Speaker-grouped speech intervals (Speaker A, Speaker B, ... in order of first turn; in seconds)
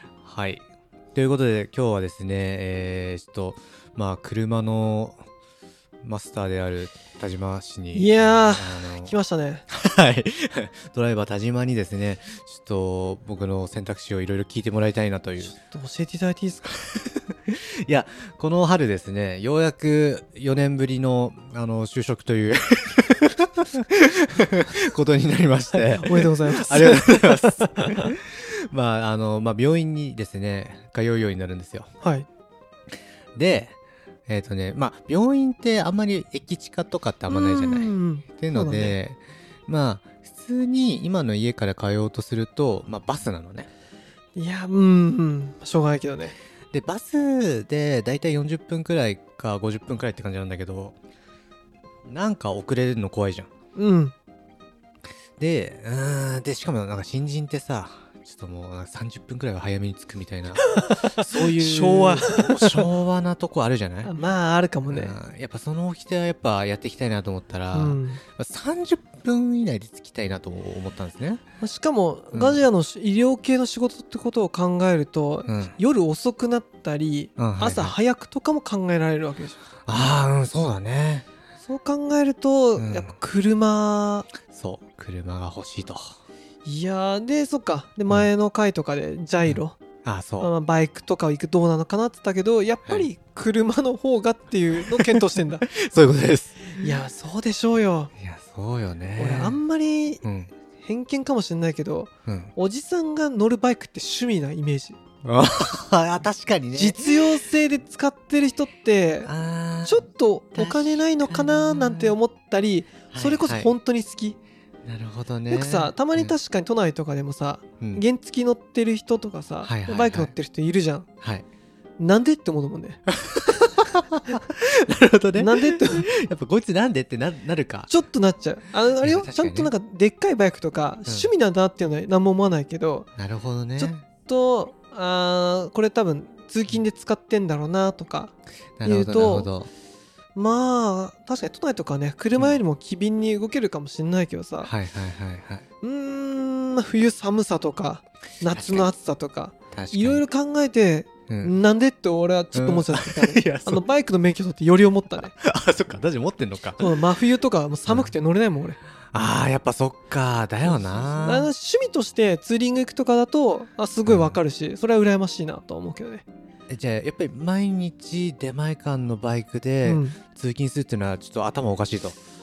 Speaker A: 0.2-5.2, 6.0-9.1, 9.7-15.5, 16.9-31.9, 33.4-33.8, 34.3-43.7, 46.7-51.0, 52.1-53.5, 55.4-64.1, 64.8-71.4, 72.3-72.6, 75.5-75.7, 77.4-78.0, 79.9-81.3, 82.8-83.2, 84.5-86.2, 89.5-90.5, 95.7-96.8, 98.2-99.6, 100.2-100.5, 102.3-102.5, 105.2-107.2, 109.3-112.2, 113.1-113.7, 114.8-116.3, 119.6-120.3, 123.1-127.9, 129.0-129.7, 133.2-134.1, 138.8-139.7, 144.6-145.7, 148.5-148.9, 149.7-150.2, 151.3-151.5, 152.5-153.8, 155.2-156.9, 157.9-158.1, 159.1-161.5, 164.1-164.4, 166.7-172.2
Speaker B: 7.9-9.7, 15.4-16.7, 25.9-28.1, 37.3-39.0, 44.4-46.4, 53.8-54.1, 60.6-62.9, 64.0-65.2, 67.7-68.2, 71.6-79.6, 81.7-84.3, 86.7-89.8, 90.4-95.7, 96.7-98.1, 99.2-100.2, 100.8-105.0, 106.7-109.3, 109.9-114.4, 115.5-121.1, 122.0-123.0, 125.4-126.1, 127.9-133.1, 133.8-138.3, 138.8-139.5, 140.3-144.7, 145.8-155.3, 156.8-158.8, 161.2-166.2, 169.8-170.2